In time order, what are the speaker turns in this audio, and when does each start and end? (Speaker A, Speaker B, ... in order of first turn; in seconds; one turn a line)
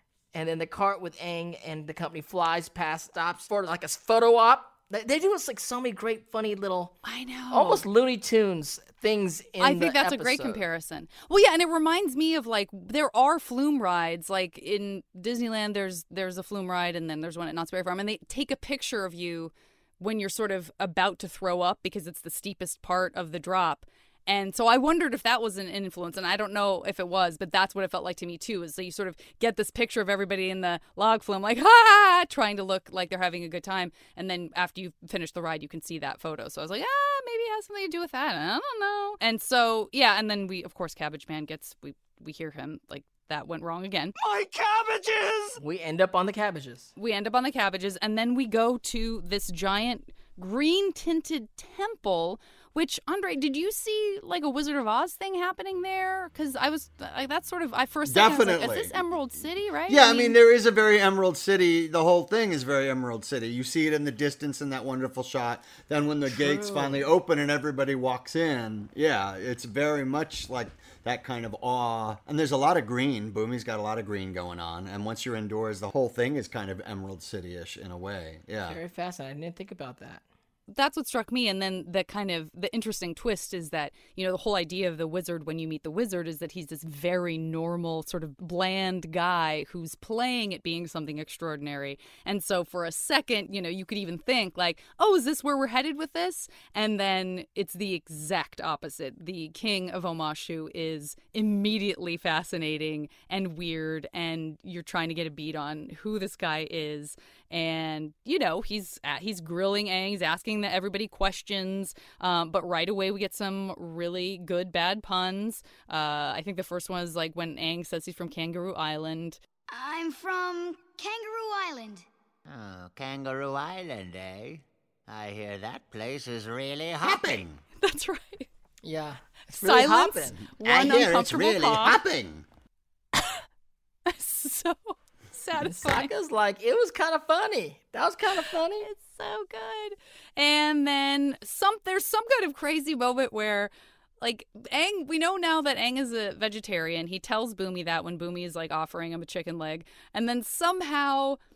Speaker A: 0.3-7.0
Speaker B: 7.0-7.8
Speaker A: 7.5-10.6
Speaker B: 9.6-44.1
Speaker A: 45.6-46.9
Speaker B: 47.0-60.4
Speaker C: 58.1-59.0
Speaker C: 59.9-78.8
Speaker A: 66.3-67.0
Speaker A: 78.7-80.2
Speaker B: 80.7-119.4
Speaker D: 119.7-122.1
Speaker E: 122.5-127.6
Speaker C: 127.0-127.3
Speaker B: 127.8-128.5
Speaker A: 128.8-130.5
Speaker B: 129.6-132.0
Speaker E: 130.6-132.4
Speaker B: 134.1-136.1
Speaker A: 135.6-138.9
Speaker B: 138.8-151.4